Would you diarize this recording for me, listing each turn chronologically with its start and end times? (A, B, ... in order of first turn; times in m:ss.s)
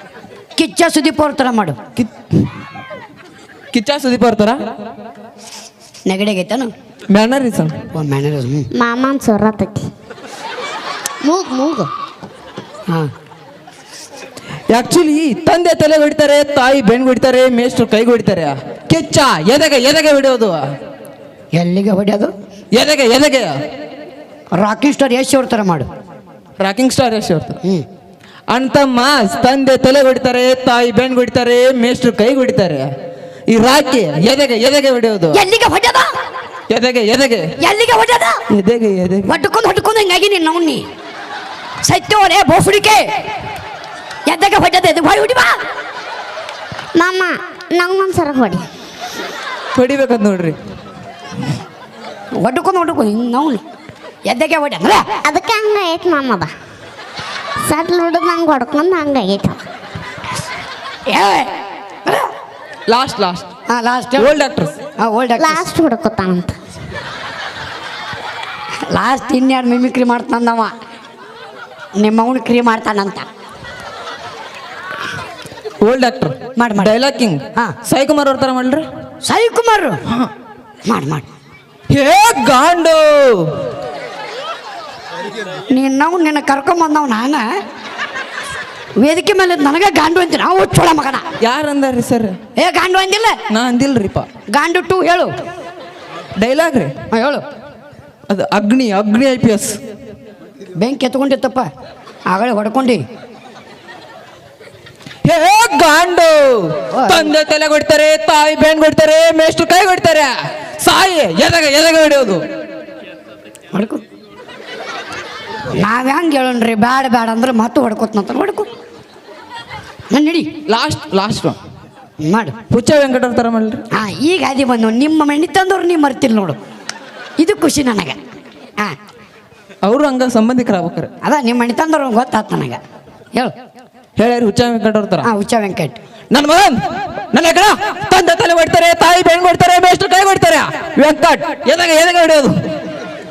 0:00.6-0:01.8 A
0:03.7-0:04.6 B
0:06.0-0:06.7 A
0:07.1-0:07.7 B
0:07.9-0:08.7 A
0:08.8-0:09.9 C
0:11.2-0:11.9 C
0:14.7-0:20.6 B
0:21.5-0:22.3 A
0:22.7-0:23.5 B
0:24.5-0:25.9 A
0:26.6-0:27.6 B
0:28.5-0:32.9 B
0:33.5-0:35.4 B
0:35.3-0:36.1 A
0:36.7-0:37.4 B
0:37.6-0:38.4 A
0:38.5-0:39.3 B
0:39.2-0:40.8 A
0:41.8-0:43.1 A
0:44.3-0:45.6 A
0:47.0-0:48.6 C
0:49.7-0:50.6 B
0:52.4-0:53.6 A
0:54.3-0:55.0 A
0:55.2-0:56.5 C
0:57.6-0:59.6 C
1:01.1-1:01.5 A
1:02.0-1:02.3 A
1:02.9-1:03.5 B
1:03.7-1:04.3 A
1:04.2-1:04.7 B
1:05.0-1:05.7 A
1:05.4-1:06.6 C
1:08.9-1:10.7 A
1:12.0-1:13.2 A
1:15.8-1:18.8 B
1:16.6-1:16.9 A
1:19.2-1:20.0 A
1:20.9-1:21.3 A
1:21.9-1:23.5 B
1:25.7-1:27.5 A
1:29.0-1:31.2 A
1:31.4-1:32.4 B
1:32.6-1:33.4 A
1:33.5-1:34.3 B
1:34.5-1:35.3 A
1:36.4-1:36.9 B
1:37.1-1:37.4 A
1:38.3-1:39.8 B
1:40.7-1:41.7 A
1:42.3-1:43.0 A
1:45.2-1:52.4 B
1:46.9-1:47.3 A
1:53.7-1:54.0 A
1:55.8-1:58.7 A
2:00.1-2:00.5 A
2:00.7-2:01.6 B
2:02.2-2:02.6 A
2:02.7-2:03.8 B
2:03.9-2:06.6 A
2:07.4-2:08.2 A
2:09.8-2:11.1 B
2:11.2-2:12.8 A
2:14.2-2:15.3 B
2:15.2-2:16.0 A
2:16.3-2:16.8 B
2:17.3-2:22.5 B